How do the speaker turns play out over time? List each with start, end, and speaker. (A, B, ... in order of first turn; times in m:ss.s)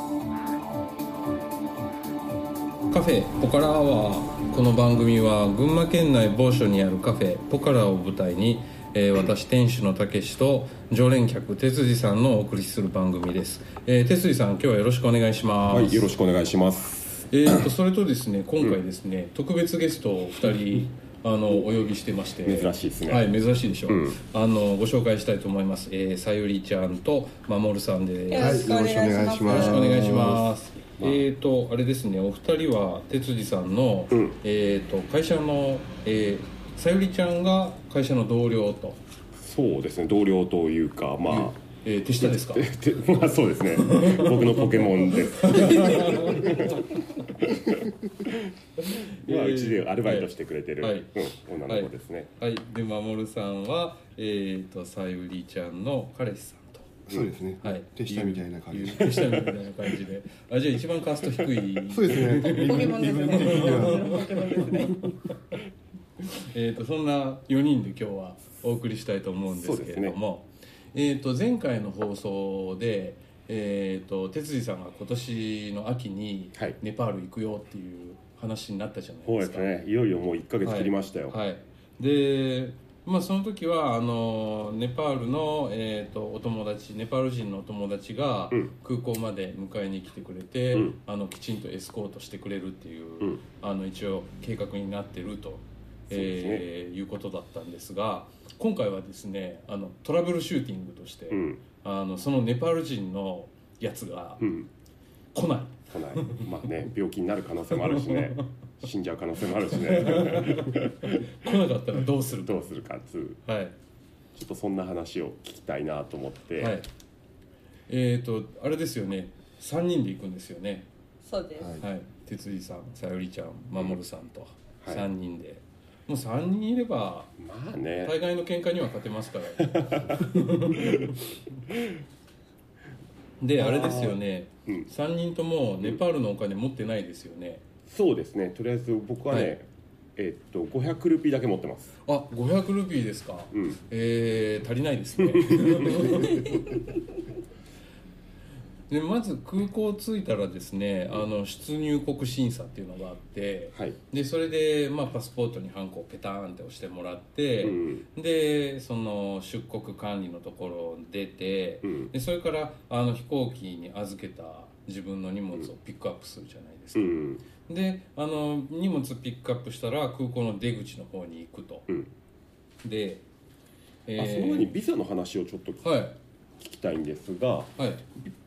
0:02.9-0:16.1 A
0:15.7-0:17.7 B
0:17.3-0:28.9 A
0:22.4-0:23.3 B
0:23.9-0:24.2 B
0:28.3-0:30.1 C
0:28.4-0:30.6 D
0:29.4-0:39.0 A
0:39.4-0:41.6 B
0:41.3-0:42.7 A
0:42.2-0:48.5 B
0:43.8-0:47.3 A
0:48.8-0:51.1 A
0:49.0-0:52.3 B
0:51.7-0:57.0 A
0:57.1-0:59.4 D
0:57.6-1:05.3 A
1:01.9-1:05.1 D
1:02.5-1:05.1 C
1:06.2-1:19.8 A
1:09.5-1:10.2 B
1:19.3-1:21.4 B
1:20.6-1:44.5 A
1:30.7-1:31.0 B
1:36.1-1:36.7 B
1:41.3-1:41.6 B
1:44.4-1:44.7 B
1:45.3-1:46.5 A
1:45.9-1:51.5 B
1:47.8-1:48.4 A
1:49.8-1:52.7 A
1:52.5-1:53.4 B
1:53.4-1:53.7 A
1:54.4-1:56.8 B
1:56.6-1:56.9 A
1:57.9-2:00.9 A
2:01.2-2:01.8 C
2:01.6-2:01.8 D
2:01.8-2:07.4 A
2:04.8-2:05.1 B
2:07.4-2:08.2 B
2:08.0-2:11.2 A
2:09.6-2:11.9 B
2:13.4-2:17.6 A
2:13.6-2:14.9 B
2:17.9-2:22.0 B
2:22.1-2:26.7 A
2:23.5-2:23.8 B
2:25.2-2:26.2 B
2:26.2-2:26.7 C
2:28.9-2:51.9 A
2:37.6-2:38.1 B
2:41.8-2:42.1 B
2:47.0-2:47.4 B
2:52.8-2:53.2 A
2:54.1-2:54.8 A
2:54.2-2:55.9 B
2:55.8-2:56.2 A
2:56.6-2:57.8 B
2:57.8-2:58.0 A